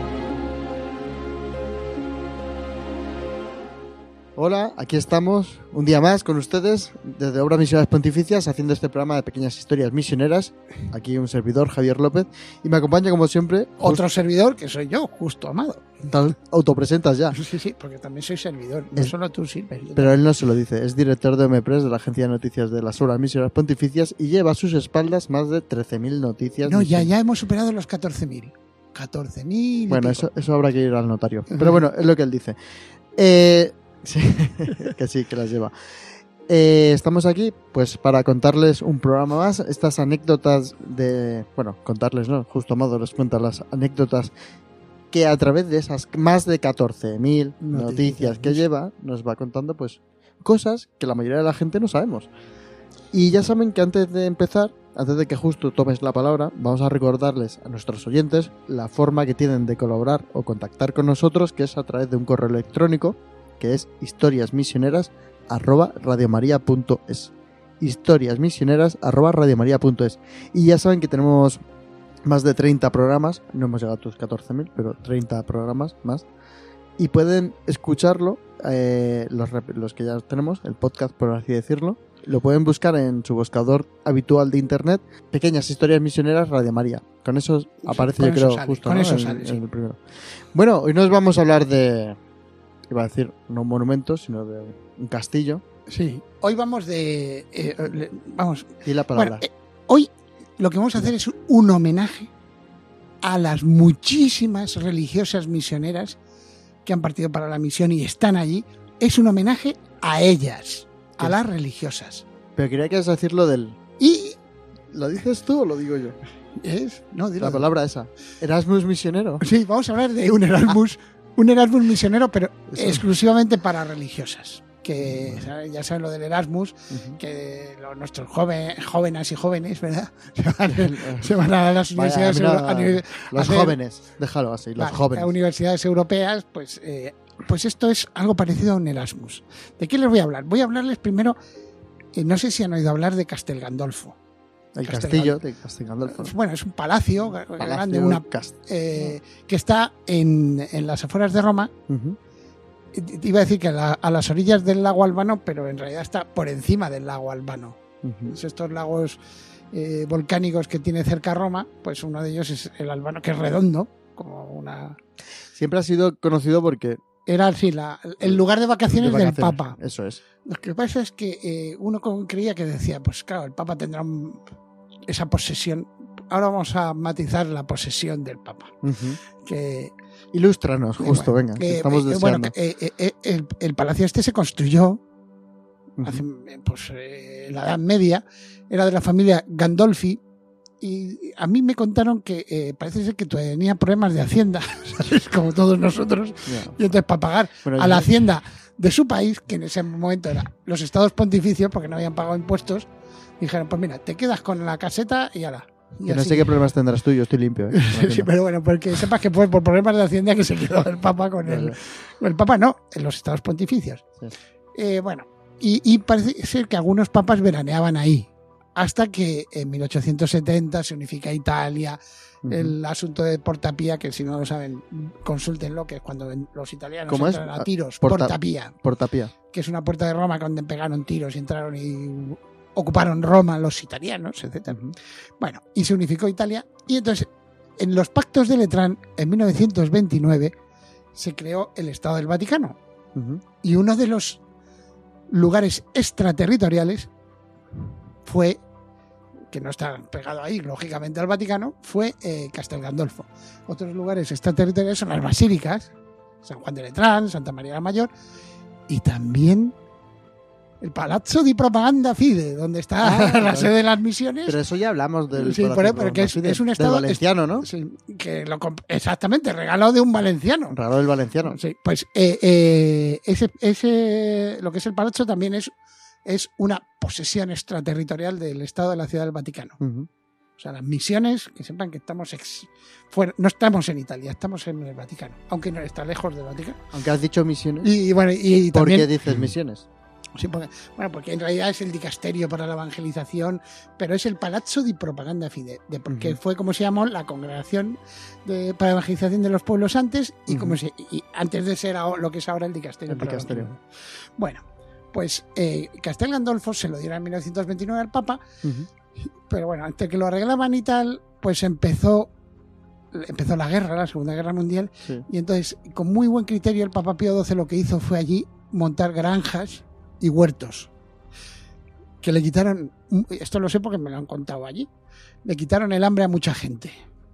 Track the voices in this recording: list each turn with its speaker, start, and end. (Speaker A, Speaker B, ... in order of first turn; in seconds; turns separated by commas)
Speaker A: 4.3-14.0, Speaker B: 13.8-16.1, Speaker A: 16.1-17.4, Speaker B: 17.3-20.2, Speaker A: 19.9-27.1, Speaker B: 26.6-30.3, Speaker A: 29.9-32.6, Speaker B: 31.5-31.8, Speaker A: 33.1-44.3, Speaker A: 45.1-52.3, Speaker B: 47.6-48.6, Speaker A: 53.1-71.6, Speaker A: 72.2-76.3, Speaker A: 77.0-92.2, Speaker B: 87.8-89.6, Speaker A: 92.9-95.6, Speaker B: 95.9-102.3, Speaker A: 98.8-99.5, Speaker B: 103.2-106.2, Speaker B: 106.9-112.2, Speaker A: 112.6-113.8, Speaker B: 114.0-114.4, Speaker A: 114.9-116.2, Speaker B: 116.6-117.7, Speaker A: 117.4-119.4, Speaker B: 119.4-133.8, Speaker A: 122.7-123.0, Speaker A: 125.1-125.5, Speaker A: 126.9-127.2, Speaker A: 130.7-131.4, Speaker A: 131.9-135.3, Speaker B: 134.8-141.4, Speaker B: 142.2-144.2, Speaker A: 144.8-146.3, Speaker B: 144.8-145.4, Speaker B: 146.1-151.7, Speaker A: 147.4-148.6, Speaker A: 151.9-152.2, Speaker B: 152.9-159.2, Speaker A: 158.0-158.3, Speaker B: 159.7-165.0, Speaker A: 165.5-167.0, Speaker B: 167.3-169.8, Speaker A: 168.2-170.2, Speaker B: 170.4-174.4, Speaker B: 175.1-179.9, Speaker A: 178.8-179.2, Speaker A: 180.3-182.5, Speaker B: 181.0-185.0, Speaker A: 186.0-186.2, Speaker B: 186.0-190.2, Speaker B: 190.8-202.9, Speaker A: 196.5-196.8, Speaker A: 197.7-198.1, Speaker B: 203.4-206.6, Speaker A: 206.1-208.3, Speaker B: 207.7-214.0, Speaker A: 211.4-211.8, Speaker B: 214.8-228.7, Speaker A: 222.4-222.8, Speaker A: 227.1-229.3, Speaker B: 229.5-240.5, Speaker A: 234.7-234.9, Speaker B: 241.1-242.8, Speaker A: 243.2-243.4, Speaker B: 243.6-244.4, Speaker B: 245.3-247.1, Speaker B: 248.2-248.6, Speaker B: 249.5-255.9, Speaker B: 256.4-258.1, Speaker B: 258.9-259.8, Speaker B: 260.8-264.6, Speaker A: 263.0-263.8, Speaker A: 264.5-267.7, Speaker B: 265.3-270.8, Speaker A: 270.7-271.6, Speaker B: 271.4-275.7, Speaker B: 276.2-279.8, Speaker A: 279.8-280.1, Speaker B: 280.6-286.8, Speaker A: 286.9-287.9, Speaker B: 287.8-289.1, Speaker A: 288.7-289.9, Speaker B: 290.4-308.4, Speaker A: 296.1-296.4, Speaker A: 300.5-300.8, Speaker A: 303.1-303.7, Speaker A: 308.6-308.9, Speaker B: 309.5-312.3, Speaker B: 313.1-320.9, Speaker B: 322.2-324.9, Speaker B: 325.4-326.9